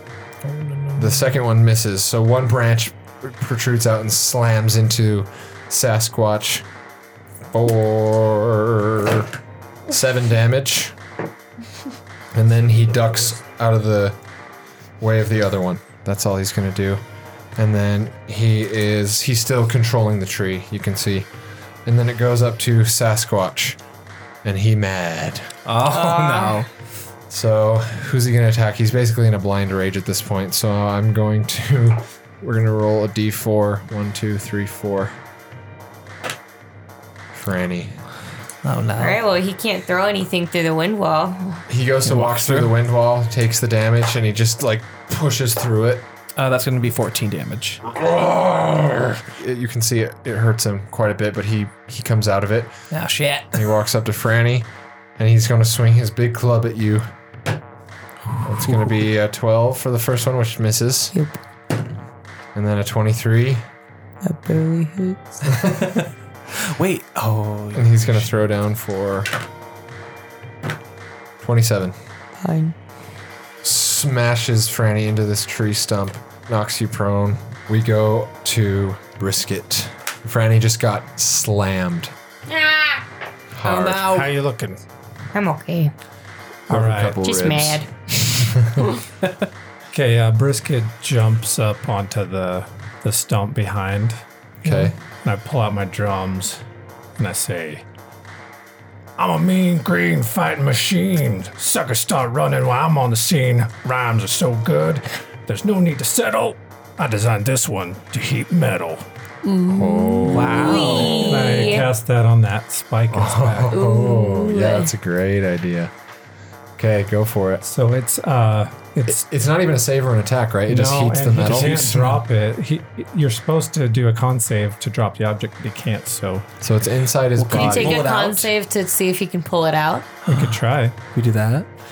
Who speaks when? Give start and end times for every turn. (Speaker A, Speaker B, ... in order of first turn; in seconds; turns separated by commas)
Speaker A: 0.4-1.2, Speaker B: 1.0-6.7, Speaker B: 7.5-9.3, Speaker B: 9.9-11.0, Speaker B: 12.3-14.2, Speaker B: 15.0-17.0, Speaker B: 17.6-21.3, Speaker B: 21.9-23.8, Speaker B: 24.4-25.5, Speaker A: 25.7-26.7, Speaker C: 25.9-26.6, Speaker B: 27.3-35.1, Speaker B: 37.3-38.0, Speaker A: 38.6-39.2, Speaker C: 39.0-41.6, Speaker B: 41.7-46.1, Speaker A: 42.0-42.8, Speaker A: 46.4-47.8, Speaker B: 47.9-52.8, Speaker A: 52.9-53.6, Speaker B: 53.5-57.1, Speaker B: 58.4-61.1, Speaker C: 61.1-61.4, Speaker B: 62.5-63.6, Speaker C: 64.2-65.4, Speaker A: 65.6-68.3, Speaker B: 67.7-69.3, Speaker B: 71.4-72.0, Speaker C: 72.4-72.8, Speaker B: 73.6-82.1, Speaker C: 82.5-83.0, Speaker B: 83.5-84.2, Speaker D: 83.9-84.8, Speaker C: 85.3-85.9, Speaker D: 86.7-87.2, Speaker B: 86.7-88.9, Speaker C: 87.2-87.9, Speaker D: 89.9-96.6, Speaker B: 94.6-95.0, Speaker D: 97.2-97.8, Speaker D: 99.2-109.0, Speaker C: 109.4-111.9, Speaker B: 109.7-111.0, Speaker A: 110.3-111.7, Speaker D: 110.5-113.8, Speaker B: 113.1-115.9, Speaker C: 113.7-114.9, Speaker B: 116.8-117.6, Speaker D: 117.6-119.2, Speaker B: 119.1-122.2, Speaker D: 120.7-126.5, Speaker B: 126.6-128.1, Speaker A: 127.4-128.5, Speaker C: 127.5-130.1, Speaker A: 130.3-130.6, Speaker D: 130.3-130.9, Speaker A: 131.2-131.7